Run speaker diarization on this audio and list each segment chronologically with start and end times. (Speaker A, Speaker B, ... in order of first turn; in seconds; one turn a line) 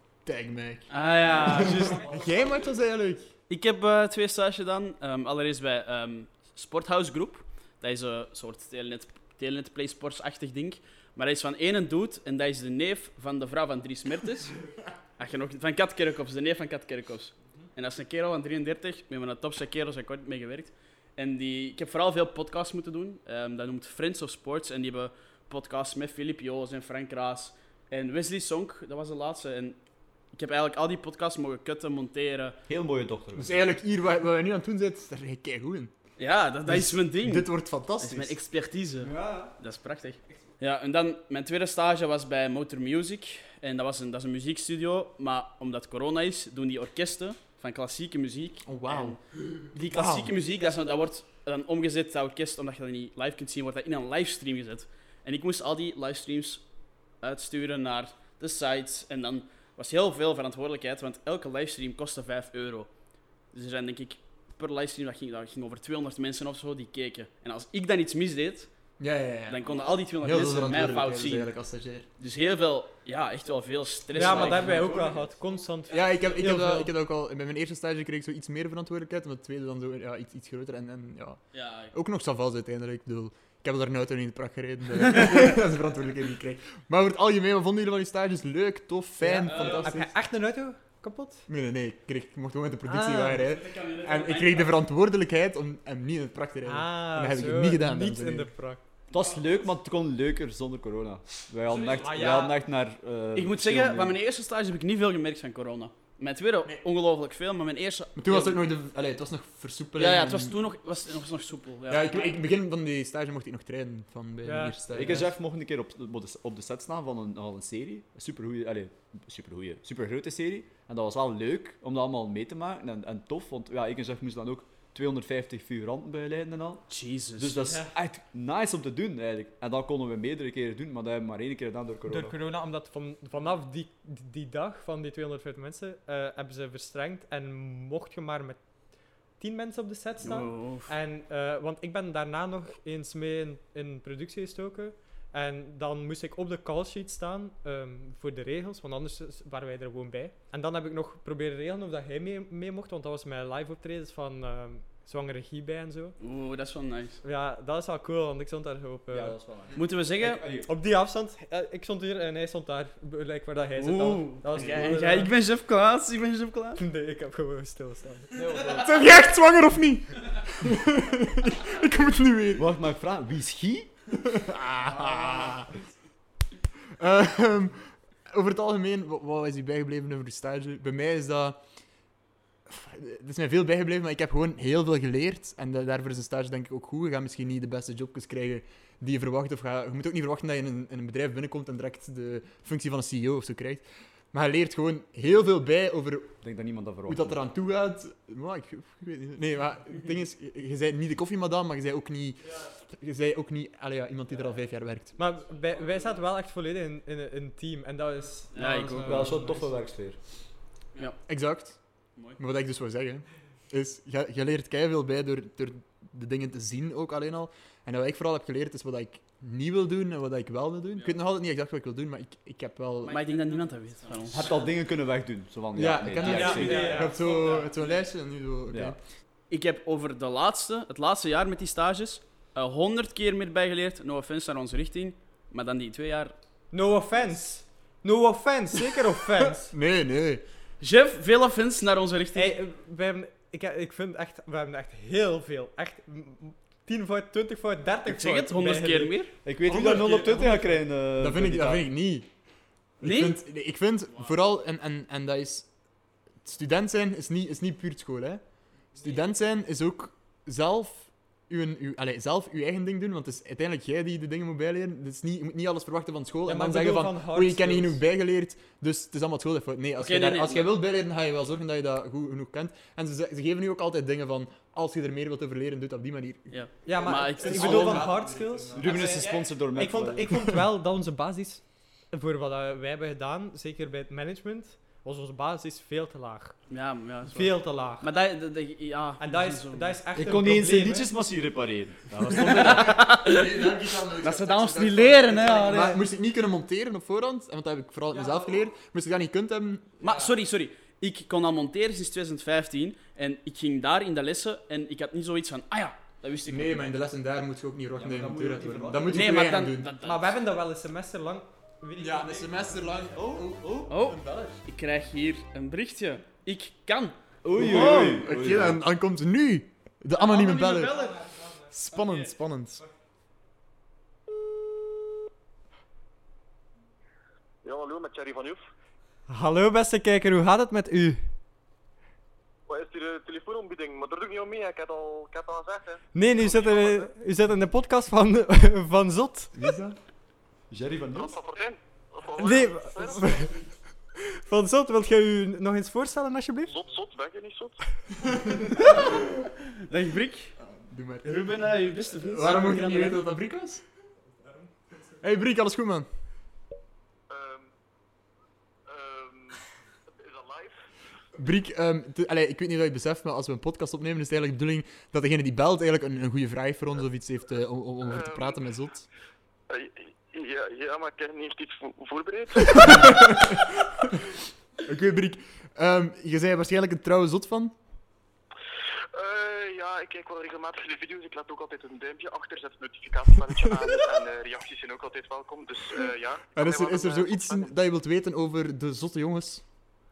Speaker A: 0.2-3.3
Speaker B: 0.9-2.0
Speaker B: 3.5-14.6
Speaker B: 15.2-29.8
Speaker B: 30.3-32.6
Speaker C: 32.7-33.6
Speaker A: 33.4-35.9
Speaker B: 36.2-49.2
Speaker A: 36.6-38.4
Speaker D: 39.1-39.5
Speaker A: 48.7-49.2
Speaker B: 49.7-56.6
Speaker A: 49.8-50.3
Speaker B: 57.2-62.9
Speaker B: 63.5-68.7
Speaker A: 69.0-69.6
Speaker B: 69.5-71.5
Speaker A: 70.2-72.1
Speaker B: 72.2-75.2
Speaker D: 74.1-76.9
Speaker A: 75.9-90.1
Speaker B: 81.5-81.9
Speaker D: 89.2-91.5
Speaker B: 89.5-90.0
Speaker A: 91.5-98.5
Speaker D: 92.9-93.5
Speaker B: 93.5-94.8
Speaker D: 96.7-98.8
Speaker C: 99.1-104.2
Speaker B: 101.7-102.4
Speaker D: 101.9-102.5
Speaker B: 103.3-108.6
Speaker A: 108.2-110.6
Speaker B: 110.0-112.4
Speaker A: 111.9-115.3
Speaker D: 114.4-114.8
Speaker C: 114.9-132.4
Speaker B: 126.9-127.7
Speaker D: 127.7-127.9
Speaker D: 132.1-138.6
Speaker D: 139.4-156.2
Speaker B: 140.2-140.9
Speaker B: 156.2-157.2
Speaker D: 157.2-159.4
Speaker C: 159.1-160.7
Speaker B: 159.7-160.4
Speaker D: 160.7-165.3
Speaker B: 163.8-166.8
Speaker D: 166.8-168.4
Speaker C: 168.3-169.1
Speaker A: 168.7-172.7
Speaker C: 172.6-173.9
Speaker A: 174.1-175.7
Speaker B: 174.9-175.7
Speaker A: 177.0-181.6
Speaker A: 182.7-196.4
Speaker C: 196.4-197.4
Speaker A: 197.1-205.1
Speaker D: 205.2-209.7
Speaker B: 208.6-209.4
Speaker A: 208.7-209.3
Speaker C: 209.1-210.2
Speaker A: 211.3-211.8
Speaker A: 212.4-223.2
Speaker B: 223.0-224.6
Speaker C: 224.3-227.1
Speaker A: 225.8-229.0
Speaker D: 226.2-227.7
Speaker B: 226.2-226.8
Speaker C: 228.7-229.0
Speaker B: 229.5-236.3
Speaker D: 236.7-239.7
Speaker A: 239.7-240.4
Speaker B: 240.8-242.6
Speaker D: 242.3-249.2
Speaker B: 248.1-249.3
Speaker C: 249.4-251.9
Speaker A: 249.7-250.6
Speaker D: 249.7-250.8
Speaker A: 251.2-252.3
Speaker A: 253.0-255.7
Speaker B: 253.0-253.4
Speaker A: 256.4-258.4
Speaker A: 259.0-279.3
Speaker D: 266.5-268.0
Speaker B: 270.0-270.7
Speaker B: 276.5-278.1
Speaker D: 276.9-286.6
Speaker C: 278.7-280.4
Speaker B: 286.7-290.0
Speaker D: 287.2-288.1
Speaker D: 289.2-291.1
Speaker C: 290.1-293.0
Speaker B: 292.3-296.0
Speaker A: 292.6-300.3
Speaker D: 295.6-295.9
Speaker B: 300.0-306.9
Speaker A: 306.5-309.9
Speaker C: 307.9-309.3
Speaker B: 309.1-310.4
Speaker D: 310.0-312.8
Speaker A: 312.0-314.6
Speaker C: 313.1-313.8
Speaker B: 313.9-317.1
Speaker C: 317.4-318.8
Speaker A: 317.6-321.0
Speaker B: 320.2-321.3
Speaker D: 320.9-321.7
Speaker A: 321.7-322.8
Speaker B: 321.9-322.3
Speaker E: 327.6-328.6
Speaker D: 329.3-331.2
Speaker E: 332.7-337.1
Speaker D: 336.1-339.6
Speaker A: 339.6-339.9
Speaker C: 340.7-341.4
Speaker E: 341.1-343.5
Speaker D: 342.4-343.6
Speaker D: 344.2-346.8
Speaker E: 346.7-347.8
Speaker D: 348.7-349.1
Speaker B: 349.8-350.6
Speaker A: 350.7-353.8
Speaker B: 351.2-353.2
Speaker A: 355.2-356.1
Speaker E: 357.3-357.7
Speaker E: 358.9-359.6
Speaker E: 360.1-360.8
Speaker A: 361.4-369.1
Speaker E: 368.1-368.6
Speaker E: 369.7-373.4
Speaker A: 372.7-374.3
Speaker A: 374.9-377.8
Speaker E: 379.1-387.7
Speaker A: 386.6-389.6